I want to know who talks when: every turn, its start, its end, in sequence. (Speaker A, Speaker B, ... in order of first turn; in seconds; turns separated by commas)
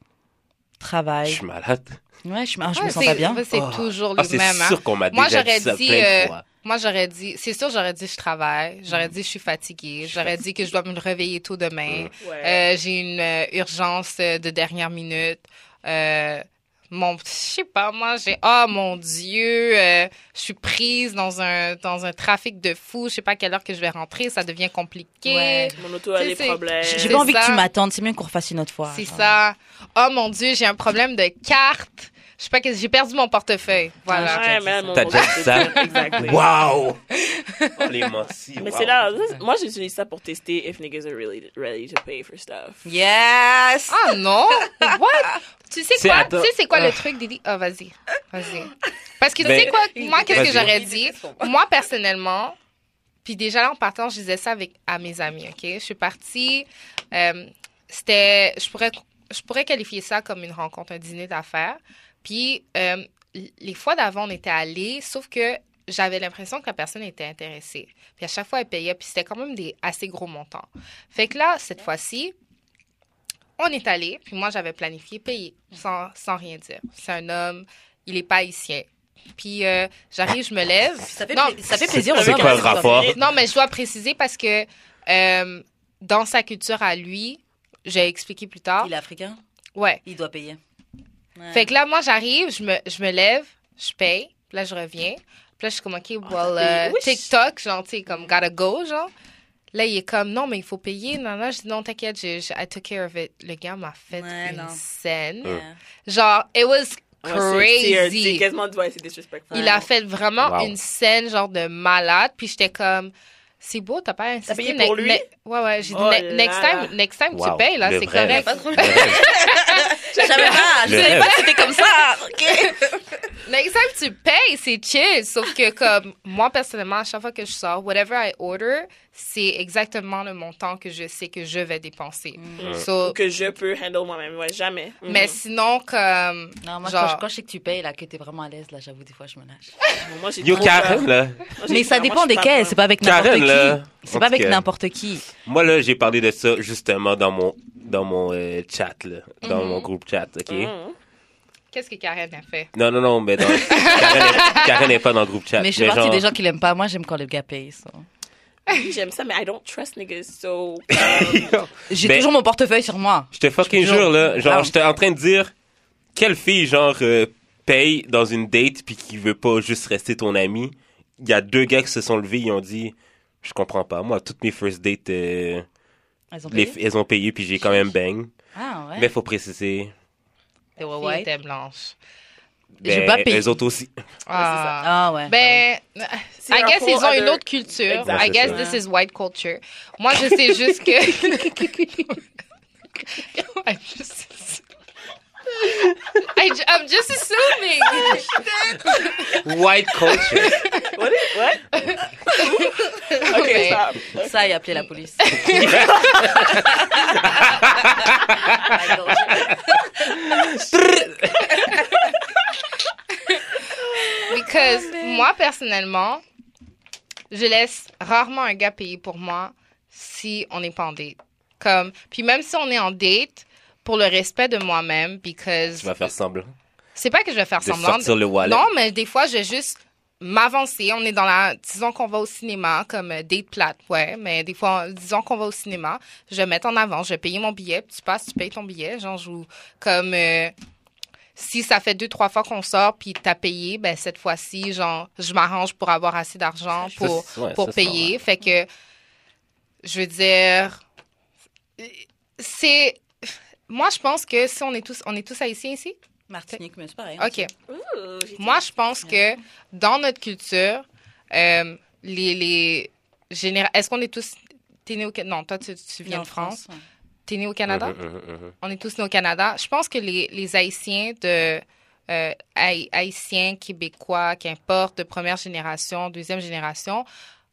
Speaker A: 0.8-1.4, Speaker B: 1.2-2.0, Speaker A: 2.2-3.4, Speaker C: 2.8-27.7, Speaker B: 3.5-6.4, Speaker B: 10.0-10.3, Speaker D: 12.2-12.7, Speaker A: 25.3-25.8, Speaker D: 25.8-27.3, Speaker A: 26.8-29.4, Speaker C: 28.9-34.5, Speaker A: 34.1-35.2, Speaker D: 34.2-36.4, Speaker B: 34.9-37.0, Speaker C: 35.5-36.1, Speaker C: 37.2-38.0, Speaker B: 37.8-39.1, Speaker D: 38.6-42.9, Speaker A: 42.9-45.0, Speaker C: 43.9-52.6, Speaker B: 45.9-47.0, Speaker B: 49.4-49.8, Speaker A: 49.4-51.5, Speaker B: 50.3-50.8, Speaker C: 53.2-72.3, Speaker C: 73.6-81.6, Speaker A: 81.1-83.1, Speaker B: 81.7-83.2, Speaker D: 82.1-83.2, Speaker C: 83.2-88.9, Speaker A: 88.8-89.4, Speaker C: 89.8-90.0, Speaker A: 90.0-90.6, Speaker A: 91.4-91.7, Speaker C: 91.5-99.1, Speaker D: 96.2-97.3, Speaker C: 99.7-108.5, Speaker A: 104.1-104.8, Speaker A: 105.4-105.8, Speaker D: 107.2-109.9, Speaker A: 109.5-109.8, Speaker C: 109.5-121.9, Speaker B: 110.4-110.8, Speaker D: 114.5-115.2, Speaker D: 115.9-116.9, Speaker B: 117.3-119.3, Speaker A: 118.3-123.2, Speaker D: 120.2-120.7, Speaker B: 120.8-121.4, Speaker C: 123.5-133.2, Speaker A: 132.4-132.7, Speaker D: 132.6-135.4, Speaker C: 135.1-137.2, Speaker A: 136.6-139.8, Speaker D: 140.0-142.8, Speaker B: 140.4-141.5, Speaker A: 140.5-141.0, Speaker A: 141.7-145.3, Speaker B: 143.0-144.7, Speaker B: 145.4-150.7, Speaker C: 149.4-149.9, Speaker D: 150.5-151.0, Speaker C: 151.7-152.7, Speaker B: 152.7-156.2, Speaker C: 153.5-154.9, Speaker A: 155.6-158.1, Speaker D: 158.7-161.6, Speaker B: 160.9-162.3, Speaker A: 161.9-164.7, Speaker B: 163.3-165.5, Speaker B: 166.2-175.7, Speaker A: 176.3-176.8, Speaker B: 176.5-178.3, Speaker A: 178.6-179.1, Speaker B: 179.0-179.9, Speaker A: 180.8-181.3, Speaker C: 181.0-182.0, Speaker B: 182.8-183.9, Speaker A: 182.8-183.6, Speaker C: 184.3-192.2, Speaker D: 184.3-184.8, Speaker A: 184.8-185.4, Speaker D: 186.4-188.7, Speaker B: 188.0-188.6, Speaker C: 193.1-194.6, Speaker C: 195.6-199.5, Speaker B: 198.9-200.6, Speaker C: 200.0-200.9, Speaker D: 200.9-201.7, Speaker C: 201.7-203.8, Speaker D: 202.3-204.4, Speaker A: 204.1-205.3, Speaker C: 205.2-207.1, Speaker B: 205.5-208.8, Speaker D: 205.6-206.3, Speaker A: 207.0-207.4, Speaker A: 208.5-209.6, Speaker B: 209.3-211.8, Speaker A: 213.9-215.3, Speaker C: 214.3-216.2, Speaker C: 217.3-225.9, Speaker B: 225.8-226.5, Speaker C: 226.9-240.5, Speaker B: 227.6-228.7, Speaker C: 241.4-248.7, Speaker B: 246.8-248.2, Speaker C: 249.8-250.8, Speaker C: 251.8-253.0, Speaker C: 253.7-256.0, Speaker A: 256.3-257.5, Speaker C: 257.2-257.5, Speaker D: 257.7-258.6, Speaker C: 258.4-266.6, Speaker A: 266.1-266.8, Speaker C: 267.3-268.0, Speaker B: 267.7-268.5, Speaker C: 268.6-277.1